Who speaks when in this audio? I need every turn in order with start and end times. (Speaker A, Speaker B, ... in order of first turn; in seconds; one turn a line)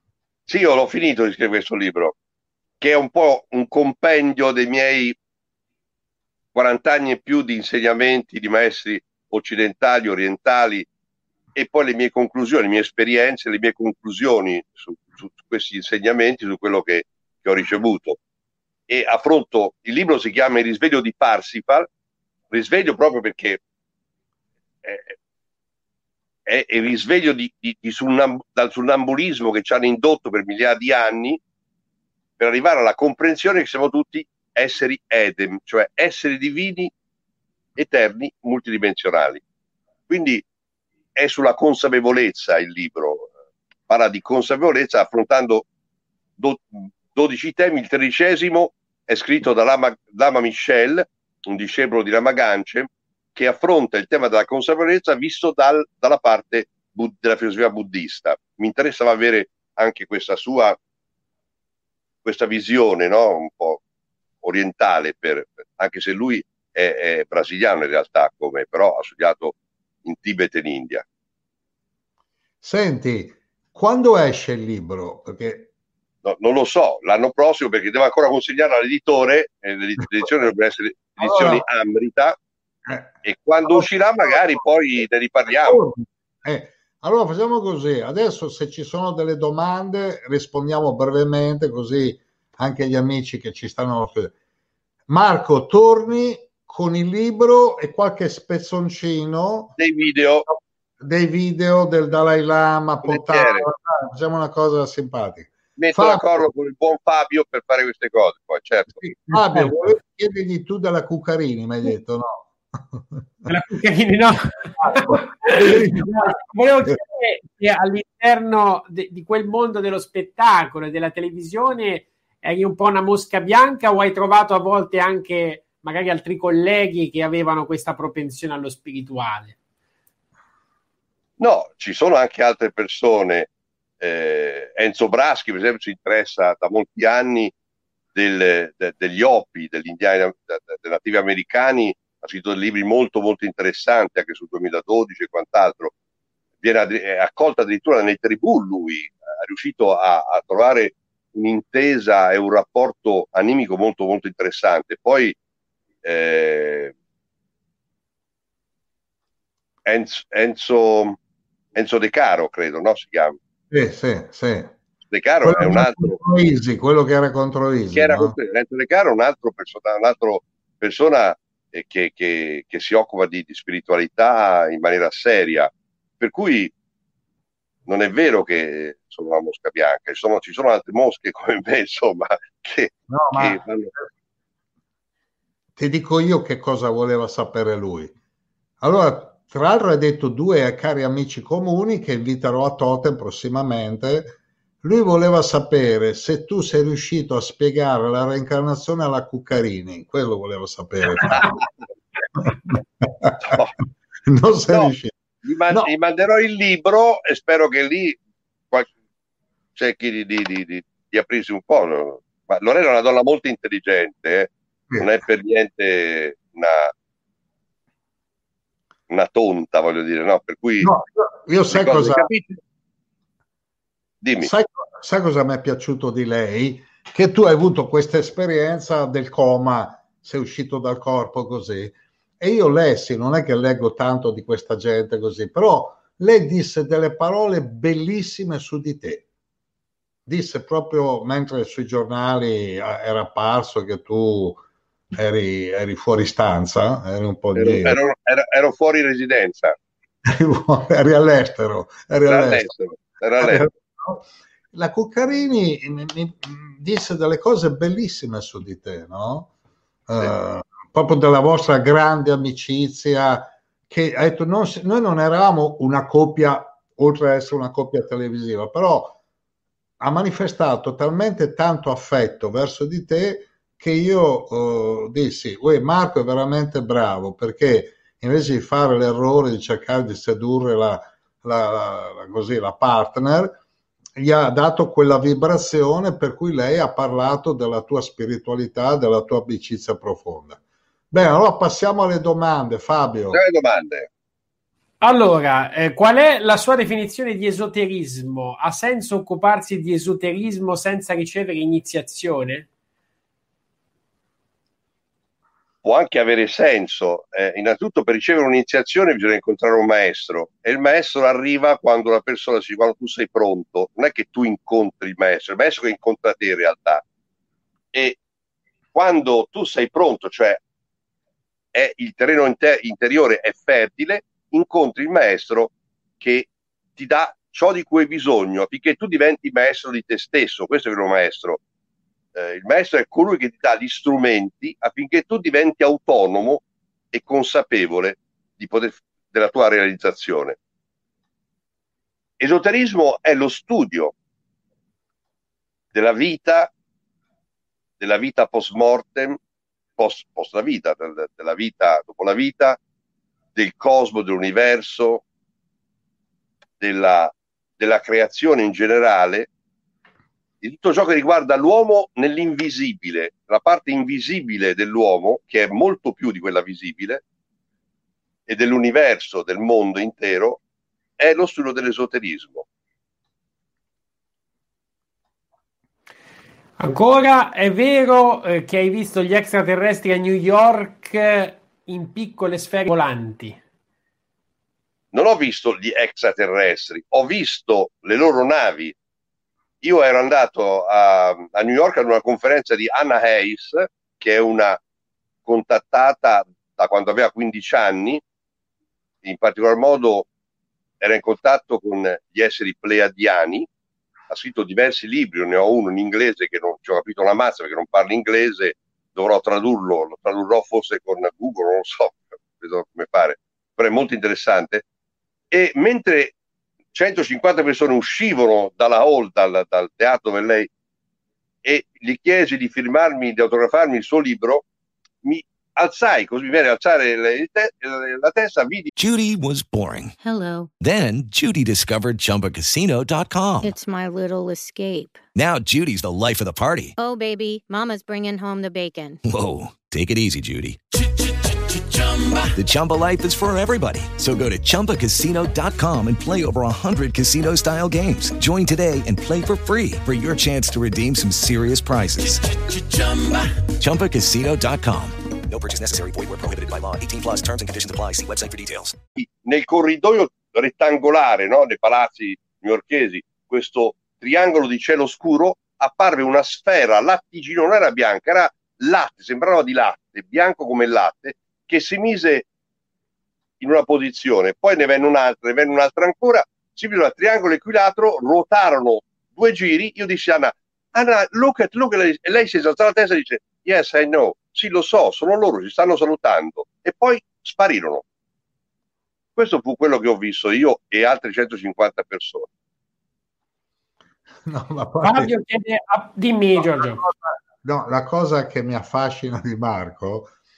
Speaker A: 0.5-2.1
Speaker A: 2.8-5.2
Speaker A: 6.5-10.8
Speaker A: 11.5-18.2
Speaker A: 18.9-21.9
Speaker A: 22.5-23.6
Speaker A: 24.8-25.1
Speaker A: 26.5-31.4
Speaker A: 32.4-36.9
Speaker A: 37.8-39.4
Speaker A: 40.1-40.4
Speaker A: 41.1-43.3
Speaker A: 43.9-45.6
Speaker A: 46.4-60.8
Speaker A: 62.2-63.8
Speaker A: 64.4-69.5
Speaker A: 70.0-71.0
Speaker B: 72.6-75.7
Speaker A: 76.2-82.3
Speaker B: 81.2-81.6
Speaker B: 82.9-84.6
Speaker A: 83.2-85.8
Speaker B: 85.5-94.3
Speaker B: 95.1-99.8
Speaker A: 99.8-100.5
Speaker B: 100.5-106.5
Speaker A: 103.0-103.7
Speaker A: 105.8-109.0
Speaker B: 109.0-113.3
Speaker C: 109.3-109.7
Speaker C: 113.5-129.6
Speaker B: 114.9-117.0
Speaker A: 131.4-133.5
Speaker A: 134.0-137.5
Speaker A: 138.1-145.9
Speaker A: 146.6-155.3
Speaker A: 156.0-156.9
Speaker A: 159.8-161.2
Speaker A: 161.7-163.4
Speaker B: 163.7-164.7
Speaker A: 165.1-166.2
Speaker B: 165.4-168.3
Speaker A: 167.9-176.7
Speaker A: 177.8-183.9
Speaker B: 183.1-184.1
Speaker B: 185.8-188.1
Speaker B: 188.8-201.5
Speaker A: 201.2-201.6
Speaker B: 202.4-203.6
Speaker A: 203.4-203.7
Speaker B: 204.2-205.1
Speaker A: 204.7-208.2
Speaker A: 209.8-216.9
Speaker A: 219.1-220.9
Speaker B: 220.8-222.3
Speaker A: 221.7-222.6
Speaker A: 224.2-224.5
Speaker B: 224.4-239.2
Speaker B: 240.2-244.6
Speaker B: 245.1-248.0
Speaker A: 247.5-249.8
Speaker B: 250.2-252.7
Speaker A: 252.2-253.6
Speaker B: 253.4-259.5
Speaker B: 260.1-269.2
Speaker B: 270.0-283.6
Speaker B: 284.2-290.6
Speaker B: 291.1-293.4
Speaker A: 293.3-294.1
Speaker C: 295.0-302.7
Speaker A: 305.8-317.0
Speaker A: 317.9-318.2
Speaker A: 318.9-320.6
Speaker A: 321.7-331.6
Speaker A: 332.3-340.6
Speaker A: 342.4-344.1
Speaker A: 345.9-346.7
Speaker A: 348.0-349.4
Speaker A: 350.0-352.8
Speaker A: 353.5-355.2
Speaker A: 356.8-359.5
Speaker A: 360.6-367.2
Speaker A: 368.5-370.6
Speaker A: 371.2-372.6
Speaker C: 376.8-383.6
Speaker A: 385.1-388.9
Speaker A: 389.8-394.8
Speaker A: 395.4-398.2
Speaker A: 399.2-400.3
Speaker A: 401.0-403.7
Speaker A: 404.3-414.8
Speaker A: 415.5-416.3
Speaker A: 416.9-420.7
Speaker A: 421.6-424.6
Speaker A: 425.2-428.9
Speaker D: 429.0-430.2
Speaker E: 430.2-430.7
Speaker D: 430.8-433.7
Speaker E: 433.6-435.2
Speaker D: 435.3-437.0
Speaker E: 437.0-439.2
Speaker D: 439.2-440.8
Speaker D: 442.5-452.4
Speaker D: 453.8-455.2
Speaker F: 455.5-458.9
Speaker A: 459.2-472.4
Speaker A: 473.6-488.0
Speaker A: 489.4-492.5
Speaker B: 494.4-495.3
Speaker C: 495.0-497.0
Speaker B: 496.7-500.3